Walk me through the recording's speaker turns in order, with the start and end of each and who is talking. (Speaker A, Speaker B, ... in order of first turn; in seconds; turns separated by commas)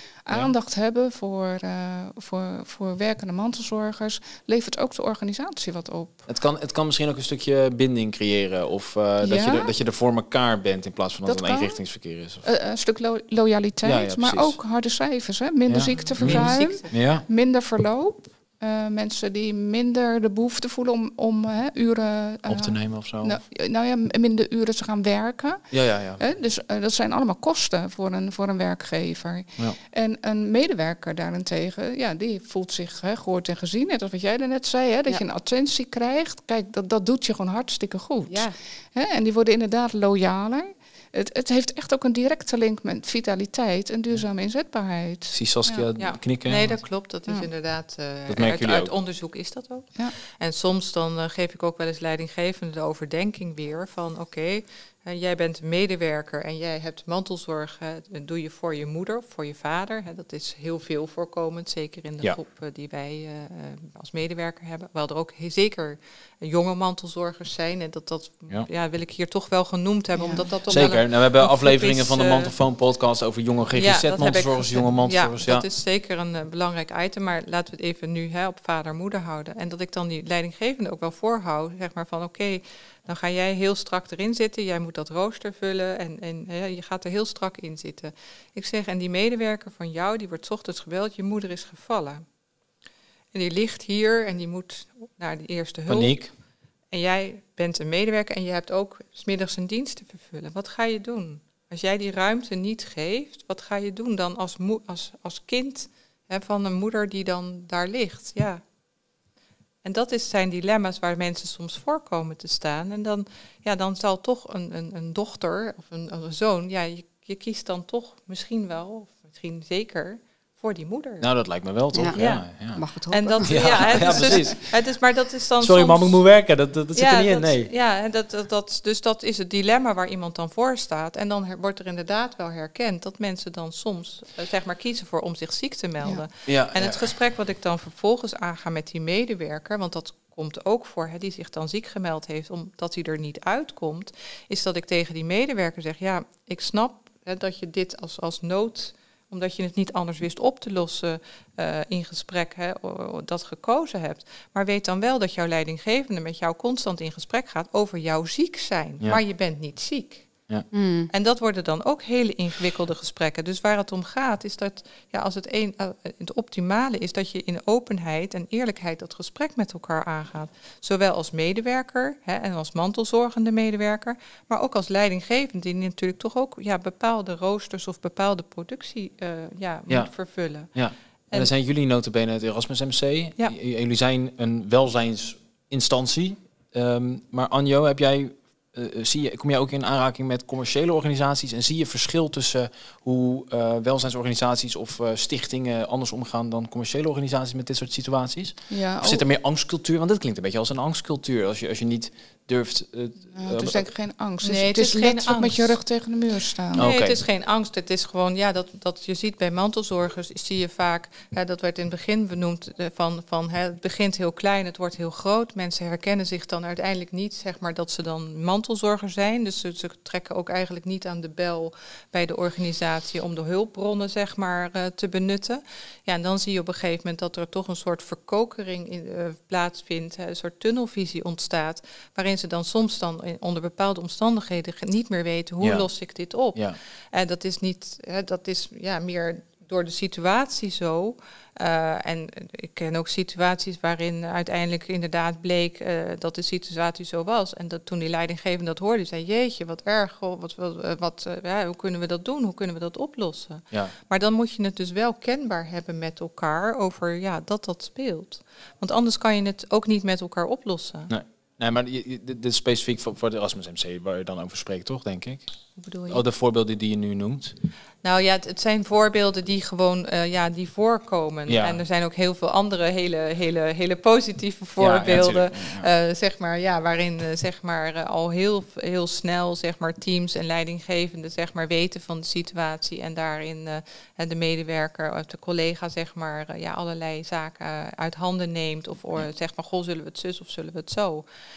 Speaker A: 0.3-6.2, Speaker B: 6.3-12.4, Speaker A: 9.2-9.7, Speaker A: 11.2-11.8, Speaker A: 12.4-45.9, Speaker B: 13.8-14.6, Speaker B: 15.7-17.2, Speaker C: 15.9-16.9, Speaker B: 22.5-23.4, Speaker B: 25.7-26.2, Speaker D: 38.3-38.5, Speaker B: 45.3-46.8, Speaker C: 46.0-72.5, Speaker B: 48.3-48.9, Speaker A: 70.2-70.5, Speaker B: 70.7-75.7, Speaker C: 73.8-92.2, Speaker C: 93.3-96.2, Speaker B: 95.9-96.3, Speaker C: 96.9-108.6, Speaker C: 109.8-121.3, Speaker B: 121.2-122.8, Speaker C: 122.2-122.5, Speaker D: 122.7-124.4, Speaker C: 123.1-126.2, Speaker B: 123.4-124.7, Speaker B: 125.6-127.7, Speaker C: 127.0-160.3, Speaker B: 136.5-137.1, Speaker D: 160.7-161.1, Speaker C: 161.1-180.7, Speaker B: 179.9-180.1, Speaker B: 180.7-203.8, Speaker A: 198.7-199.2, Speaker A: 203.3-206.9, Speaker C: 204.4-205.8, Speaker C: 206.7-261.1, Speaker B: 206.8-207.2, Speaker B: 235.6-235.9, Speaker B: 261.1-265.5, Speaker C: 265.8-266.2, Speaker B: 266.1-267.6, Speaker C: 268.0-291.2, Speaker B: 271.5-271.8, Speaker B: 274.8-275.9